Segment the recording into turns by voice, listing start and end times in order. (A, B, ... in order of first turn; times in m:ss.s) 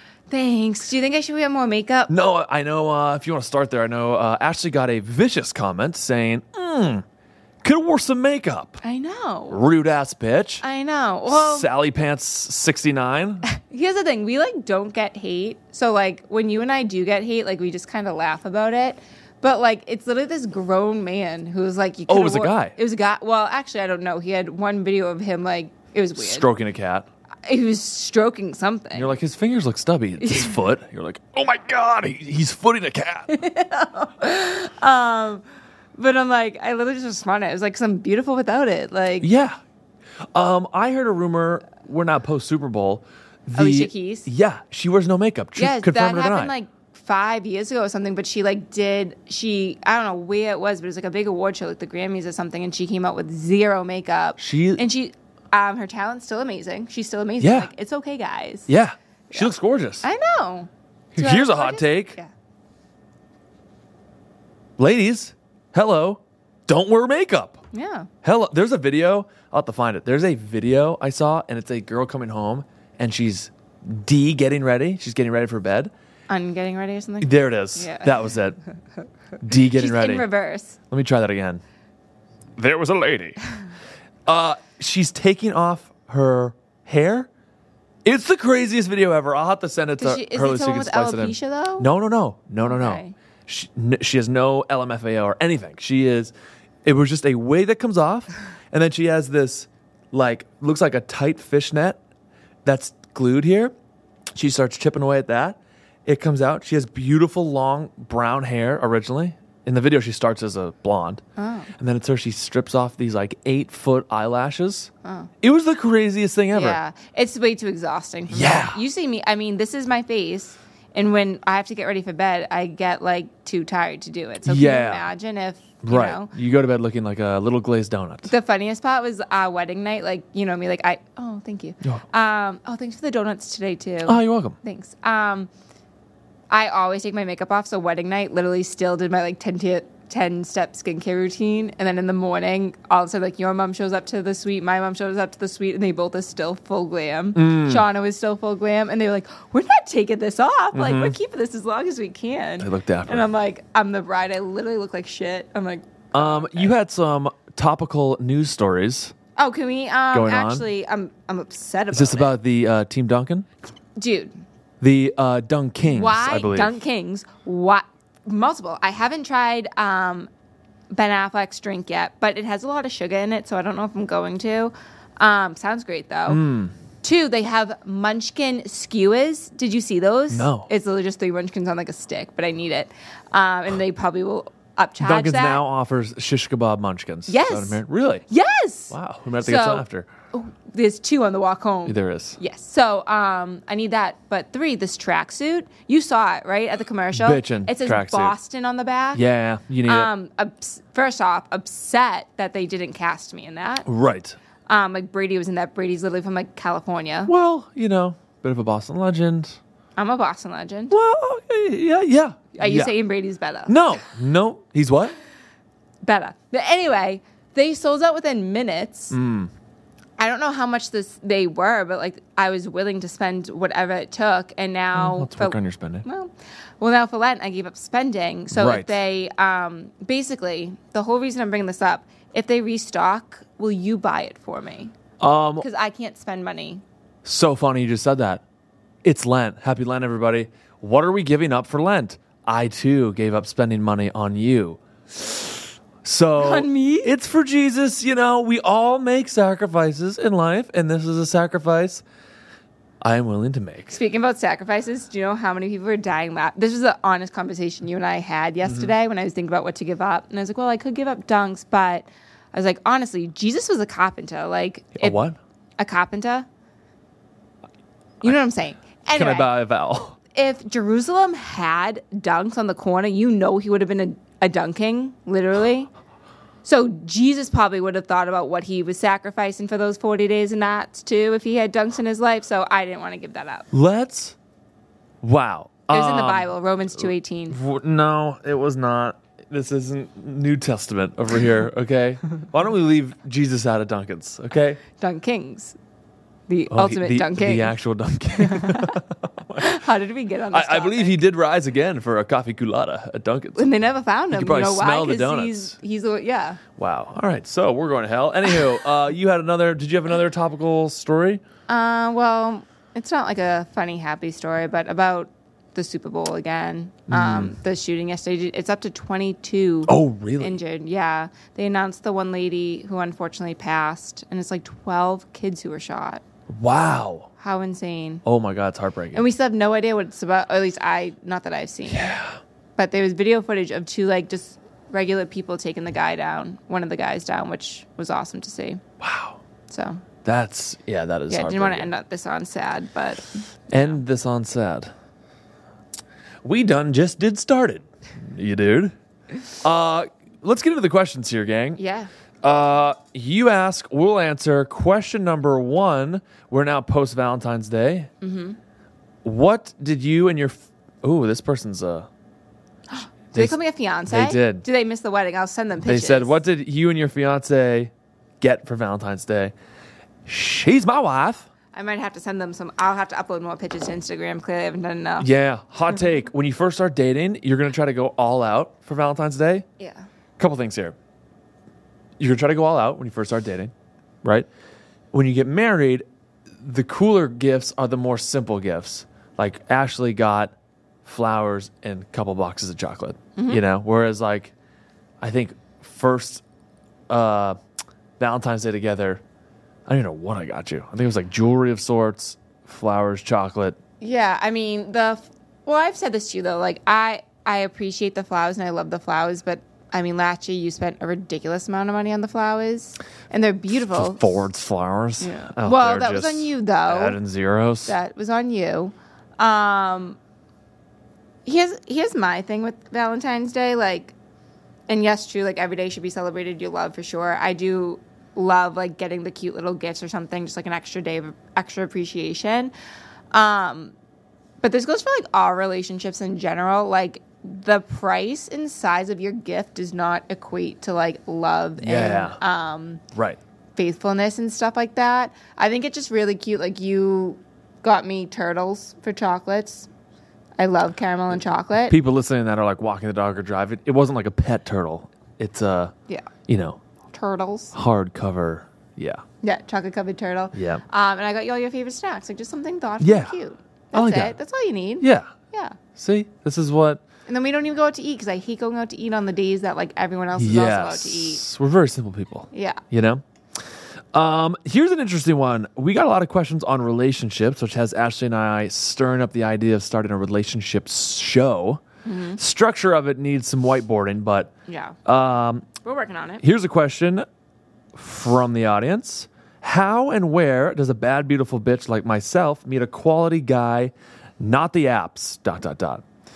0:00.3-0:02.1 A
0:02.1-0:07.0 B
0:07.6-0:08.8 B
0:08.8-0:09.6 A
0:09.5-0:10.6 B
0:10.6-0:11.7 A
0:11.3-0:13.4 B
0:13.5-0:26.5 A
0:22.1-0:22.8 B
0:26.2-0:27.1 B
0:27.5-0:29.2 A
0:28.9-0:33.3 B
0:30.2-0:30.6 A
0:33.3-0:35.4 A
0:36.0-0:39.3 A
0:39.2-0:39.6 B
0:40.3-0:46.5 B
0:43.6-0:44.3 A
0:45.6-0:58.7 A
0:54.4-0:54.8 B
0:57.4-0:57.7 B
0:58.7-1:00.0 B
0:59.3-1:02.3 A
1:01.1-1:02.2 B
1:04.8-1:07.6 B
1:07.7-1:08.1 A
1:08.2-1:15.9 B
1:16.3-1:18.2 A
1:17.2-1:18.6 B
1:19.4-1:20.3 B
1:19.5-1:20.8 A
1:20.9-1:21.6 B
1:22.6-1:23.4 B
1:24.3-1:27.3 B
1:28.0-1:36.3 B
1:30.0-1:31.9 A
1:32.6-1:33.2 A
1:36.8-1:42.0 B
1:42.6-1:43.7 B
1:44.4-1:51.2 B
1:51.4-1:51.7 A
1:51.8-1:54.9 B
1:55.0-1:55.3 A
1:55.4-1:56.8 B
1:56.5-2:06.3 A
1:58.3-1:58.8 B
2:04.5-2:05.1 B
2:05.8-2:08.3 B
2:08.3-2:15.5 A
2:14.0-2:14.6 B
2:16.5-2:36.7 A
2:27.4-2:27.8 B
2:30.7-2:31.2 B
2:32.6-2:33.3 B
2:36.1-2:39.1 B
2:39.4-2:42.3 A
2:40.1-2:40.6 B
2:41.9-2:43.5 B
2:44.0-2:44.3 A
2:44.8-2:46.7 B
2:45.9-2:50.3 A
2:50.9-2:56.4 A
2:56.3-2:56.7 B
2:57.0-3:05.6 A
3:00.3-3:00.7 B
3:05.0-3:08.2 B
3:07.3-3:19.2 A
3:08.9-3:10.1 B
3:11.9-3:12.4 B
3:17.1-3:18.4 B
3:19.1-3:20.1 B
3:19.8-3:23.9 A
3:23.9-3:24.4 B
3:24.7-3:27.3 A
3:27.3-3:29.6 B
3:30.0-3:31.0 A
3:30.9-3:32.9 B
3:32.6-3:33.8 A
3:33.7-3:35.2 B
3:36.0-3:39.2 A
3:39.1-3:39.5 B
3:40.2-3:54.9 A
3:44.9-3:46.1 B
3:48.5-3:49.0 B
3:55.2-3:55.6 B
3:55.6-3:56.8 A
3:57.2-3:58.4 B
3:59.0-4:12.0 B
4:06.4-4:07.1 A
4:13.0-4:14.0 B
4:13.9-4:25.2 A
4:18.7-4:18.9 B
4:25.0-4:25.4 B
4:25.8-4:26.5 A
4:28.2-4:29.5 A
4:29.2-4:30.2 B
4:30.3-4:35.9 A
4:36.6-4:43.7 A
4:43.7-4:44.4 B
4:45.2-4:54.8 B
4:45.9-4:47.6 A
4:55.0-4:55.8 A
4:56.5-4:57.7 A
4:56.7-4:59.8 B
4:58.4-4:59.0 A
4:59.6-5:01.2 A
5:00.5-5:03.7 B
5:03.6-5:06.6 A
5:04.3-5:05.8 B
5:06.8-5:11.4 B
5:11.7-5:26.2 A
5:17.1-5:17.6 B
5:19.9-5:20.6 B
5:26.5-5:27.3 B
5:27.4-5:28.2 A
5:28.2-5:29.2 B
5:29.1-5:32.2 A
5:31.9-5:32.4 B
5:32.8-5:38.8 A
5:39.0-5:39.4 B
5:39.7-5:40.0 A
5:40.2-5:41.9 B
5:41.3-5:44.0 A
5:43.7-5:44.9 B
5:46.4-5:48.9 B
5:49.6-5:51.8 B
5:51.8-5:52.1 A
5:52.4-5:58.1 B
5:58.2-5:58.6 A
5:59.2-6:02.1 B
6:02.9-6:06.4 A
6:04.1-6:04.7 B
6:05.8-6:09.5 B
6:10.3-6:11.5 B
6:11.7-6:15.3 A
6:15.2-6:19.7 B
6:20.4-6:21.0 B
6:22.2-6:24.5 B
6:25.1-6:26.0 B
6:26.6-6:34.5 B
6:33.4-6:33.6 A
6:35.2-6:36.4 B
6:37.1-6:37.6 B
6:38.2-6:39.2 B
6:39.9-6:43.8 B
6:44.0-6:54.4 A
6:53.9-6:58.0 B
6:55.2-6:57.2 A
6:57.9-7:00.2 A
7:01.5-7:04.1 A
7:04.9-7:12.7 A
7:13.3-7:13.9 A
7:14.6-7:23.0 A
7:21.8-7:22.4 B
7:23.1-7:23.4 B
7:23.8-7:29.9 A
7:30.6-7:32.0 A
7:31.9-7:35.9 B
7:36.5-7:36.8 B
7:37.1-7:37.8 A
7:37.7-7:39.2 B
7:39.4-7:45.8 A
7:40.5-7:40.8 B
7:43.0-7:43.4 B
7:43.9-7:44.4 B
7:45.0-7:45.3 B
7:46.0-7:47.0 B
7:47.3-7:51.4 A
7:50.4-7:53.2 B
7:52.5-7:52.8 A
7:54.1-8:01.8 B
8:02.0-8:02.4 A
8:02.4-8:04.5 B
8:04.7-8:05.0 A
8:05.0-8:05.7 B
8:05.8-8:06.4 A
8:06.4-8:07.2 B
8:08.0-8:16.0 B